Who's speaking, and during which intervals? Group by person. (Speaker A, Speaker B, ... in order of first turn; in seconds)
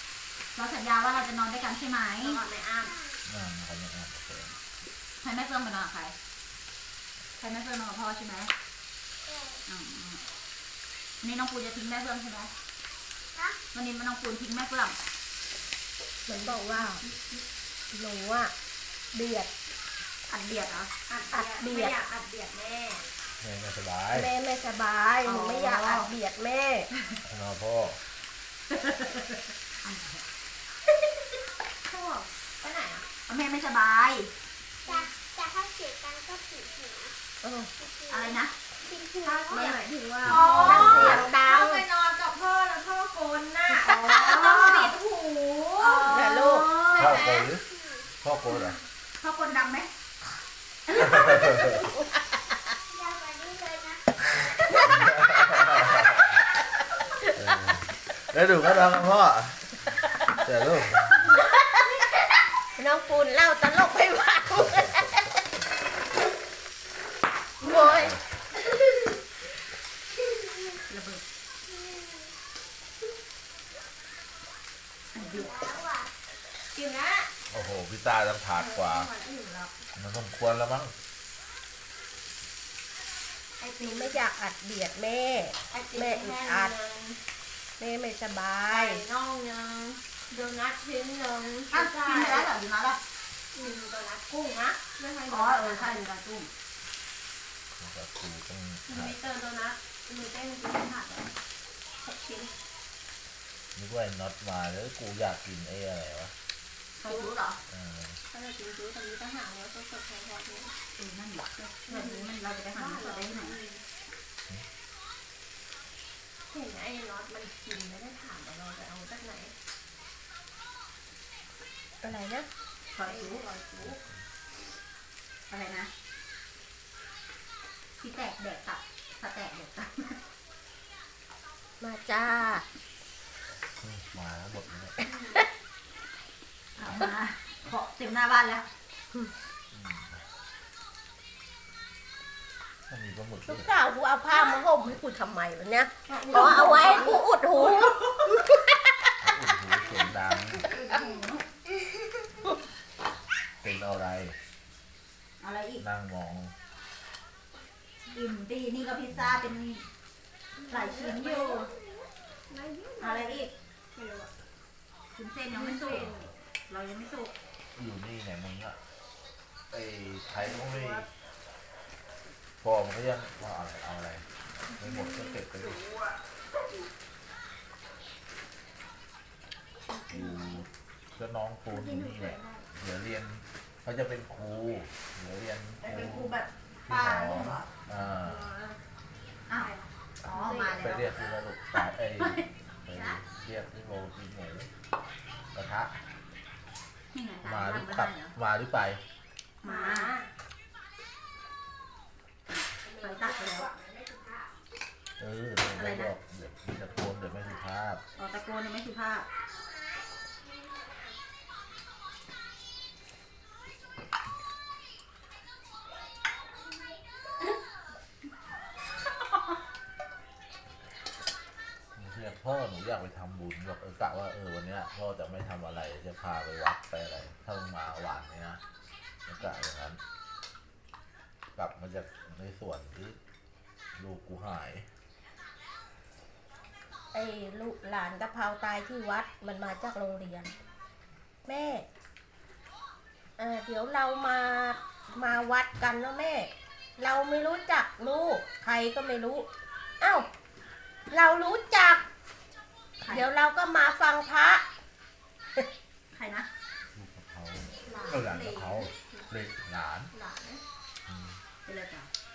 Speaker A: 0.5-2.4, 5.2-6.2, 7.4-8.5, 9.7-10.2, 11.2-12.5, 13.7-15.0, 20.3-20.9, 25.2-26.1, 28.7-30.2, 33.3-34.3, 38.1-38.5, 39.5-41.2, 44.0-45.0, 45.7-47.2, 49.2-49.9, 51.0-51.6, 70.9-71.2, 75.1-75.8, 91.7-93.0, 95.3-96.5, 107.0-107.6, 111.0-113.5, 122.9-123.5, 125.5-125.9, 128.0-130.2, 136.8-138.7, 146.1-148.0, 150.6-151.4, 155.4-155.8, 158.1-159.8, 160.7-161.7, 163.0-163.5, 165.1-166.1, 166.7-167.3, 185.8-187.7, 189.5-189.7, 190.2-191.1, 192.2-193.2, 197.1-198.3, 199.6-200.1, 203.0-203.7, 205.7-206.1, 208.2-209.2, 253.0-253.3, 256.1-256.5, 261.6-262.1
Speaker B: 2.2-3.0, 21.1-23.0, 31.9-33.0, 39.2-47.5, 76.7-77.3, 78.5-79.7, 83.6-84.2, 85.7-87.2, 88.7-92.5, 93.5-96.0, 98.9-101.3, 102.0-102.5, 107.0-107.3, 108.3-110.7, 111.9-113.8, 116.5-119.5, 123.0-123.9, 135.1-135.4, 146.4-147.1, 160.6-164.3, 165.5-166.3, 170.4-171.0, 174.7-175.8, 181.8-182.5, 188.2-188.8, 189.5-190.8, 257.8-259.3, 260.1-260.6
Speaker C: 3.2-4.5, 23.4-24.3, 27.3-28.0, 40.2-41.2, 47.0-47.6, 48.2-48.8, 50.9-51.8, 54.7-56.3, 57.3-59.8, 60.3-61.2, 67.8-68.2, 77.5-79.1, 79.9-80.9, 97.8-99.2, 103.8-106.3, 107.7-108.2, 123.8-124.2, 133.8-135.0, 139.7-140.2, 142.9-143.7, 149.2-150.7, 153.6-154.3, 155.8-156.5, 165.9-166.3, 167.7-168.8, 169.7-171.1, 172.6-175.8, 180.1-188.5, 190.7-194.7, 195.5-195.9, 197.4-199.0, 205.2-208.0, 221.9-228.6, 229.3-230.0, 231.5-233.2, 234.0-234.9, 256.9-260.1, 261.1-261.4
Speaker D: 16.3-17.0, 17.9-18.5, 19.1-19.5, 21.3-21.9, 24.1-26.9, 34.9-37.9, 38.8-39.5, 40.4-41.9, 43.7-44.9, 46.0-46.7, 52.0-52.4, 54.7-55.7, 61.2-61.8, 62.8-65.3, 67.6-68.2, 83.8-86.7, 87.8-89.0, 122.0-122.5, 131.8-132.6, 143.5-149.1, 199.7-200.3, 202.8-204.5, 207.1-207.4, 209.4-209.8, 210.4-210.9, 237.1-240.5, 241.4-241.8, 243.4-249.5, 250.0-250.3, 251.1-252.0, 253.1-254.6
Speaker E: 35.4-37.0, 39.0-39.6, 52.9-54.0